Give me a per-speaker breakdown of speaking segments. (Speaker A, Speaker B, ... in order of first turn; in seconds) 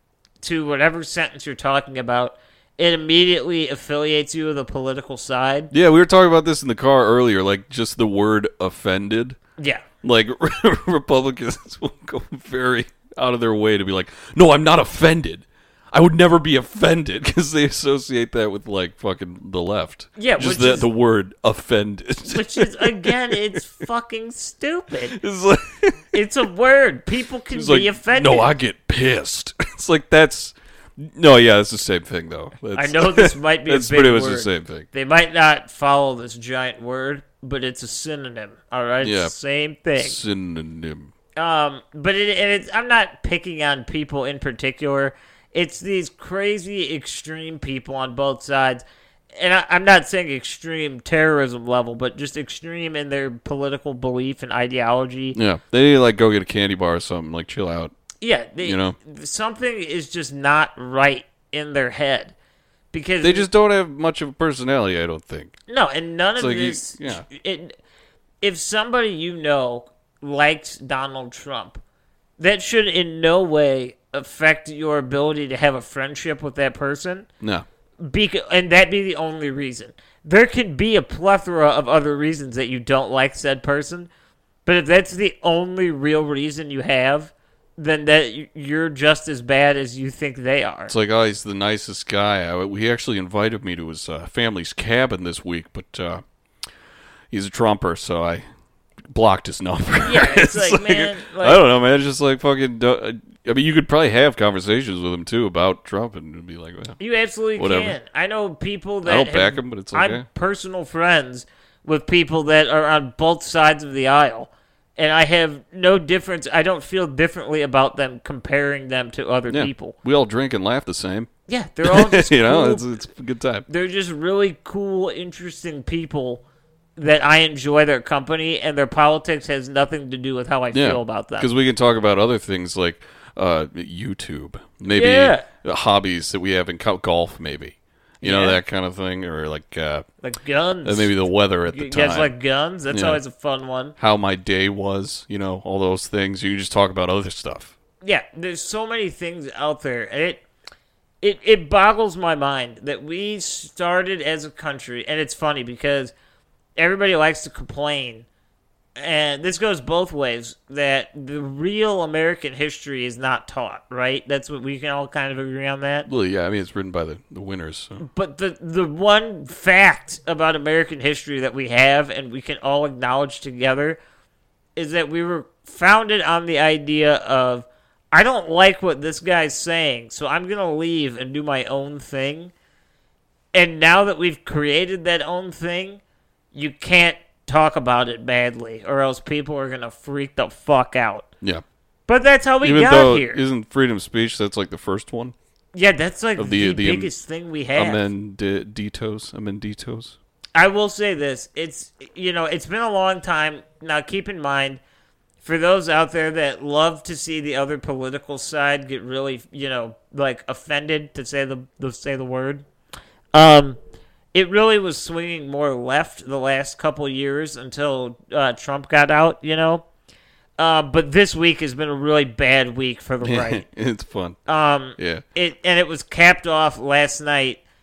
Speaker A: 0.4-5.7, 9.6-9.8, 20.2-20.9, 22.3-25.2, 26.1-28.5, 32.8-40.2, 41.4-48.8, 49.4-55.4, 58.2-62.3, 62.9-63.5, 65.7-67.8, 68.4-71.8, 72.4-77.3, 78.0-84.1, 84.7-90.9, 100.0-101.6, 107.0-120.0, 121.5-122.8, 123.7-126.4, 127.0-131.5, 134.9-135.5, 138.2-138.6, 140.2-141.1, 141.7-143.9, 148.0-150.4, 151.2-156.1, 156.8-158.3, 159.0-166.1, 168.0-174.0, 174.8-182.5, 183.5-186.0, 186.5-191.3, 192.1-193.4, 195.7-198.1, 200.6-204.8, 205.4-212.7, 213.3-213.8, 214.3-219.8, 220.6-223.7, 224.5-227.6
Speaker B: 5.7-9.4, 10.0-23.4, 25.1-26.1, 27.5-34.9, 39.0-39.4, 40.0-41.1, 55.4-57.9, 58.6-59.0, 63.2-65.6, 66.4-67.3, 90.9-96.2, 97.3-98.4, 99.1-107.0, 107.6-108.0, 109.0-110.3, 119.5-121.3, 121.8-123.7, 130.7-140.1, 140.8-142.3, 142.9-143.2, 144.0-147.7, 166.1-168.1, 192.6-195.3, 196.4-197.1, 197.8-200.2, 223.2-224.4, 225.0-225.2